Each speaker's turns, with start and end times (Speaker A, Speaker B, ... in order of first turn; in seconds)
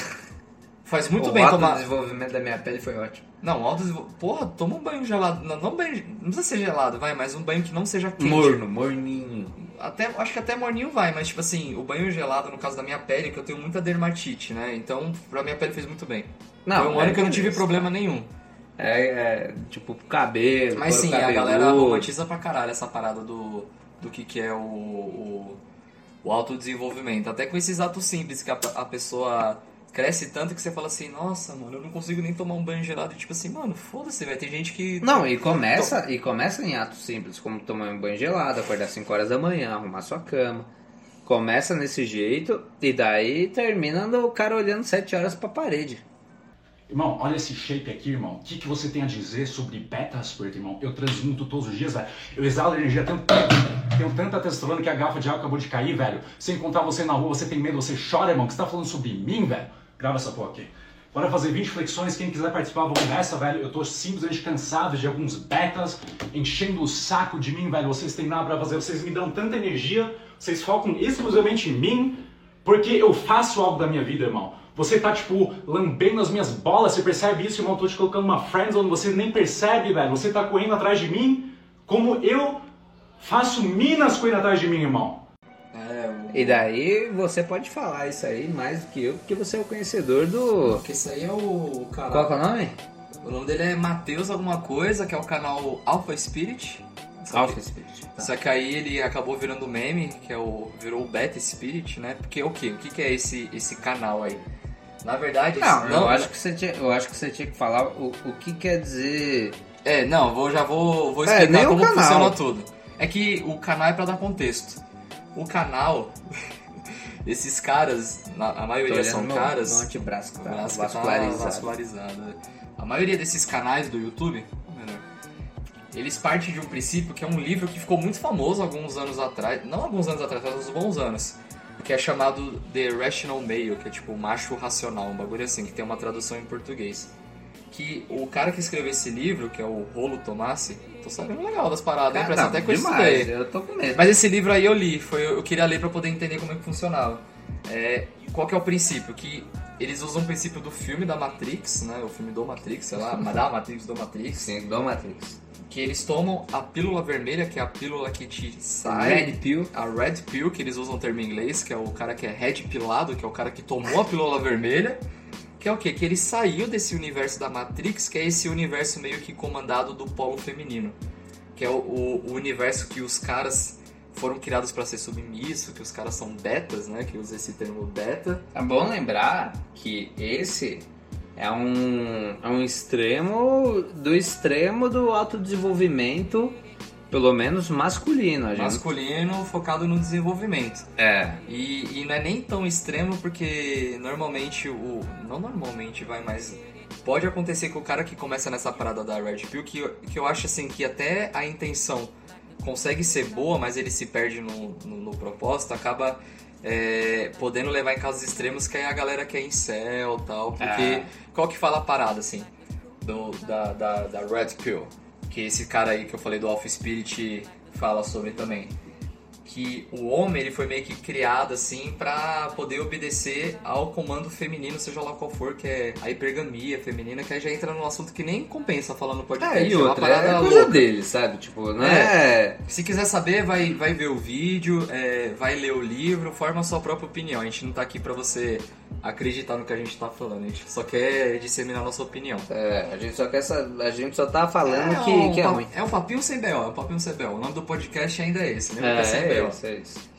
Speaker A: 0.8-1.9, 3.4-8.7, 9.6-18.3, 20.8-25.6, 26.2-36.0, 85.7-86.7, 90.7-92.4, 93.2-97.6, 98.2-104.5, 105.0-106.3, 109.8-114.8, 115.3-125.1, 125.9-137.1, 137.7-143.3, 143.9-154.5, 155.7-165.0, 165.6-171.0, 171.6-178.4, 188.5-190.9, 191.5-212.5, 213.0-218.7, 219.4-230.9, 231.8-232.2, 232.7-242.5, 244.6-249.6
Speaker B: 1.2-3.2, 8.2-9.6, 16.7-17.9, 18.8-22.1, 35.0-40.7, 41.2-46.0, 86.3-90.8, 92.1-92.8, 97.3-98.3, 105.6-109.6, 111.3-112.4, 118.8-121.8, 142.1-144.1, 154.3-155.4, 158.8-159.7, 178.5-186.6, 187.1-188.8, 191.0-191.4, 210.6-211.1, 229.4-232.6, 242.5-245.7, 248.8-250.0
Speaker C: 46.9-82.6, 83.2-85.2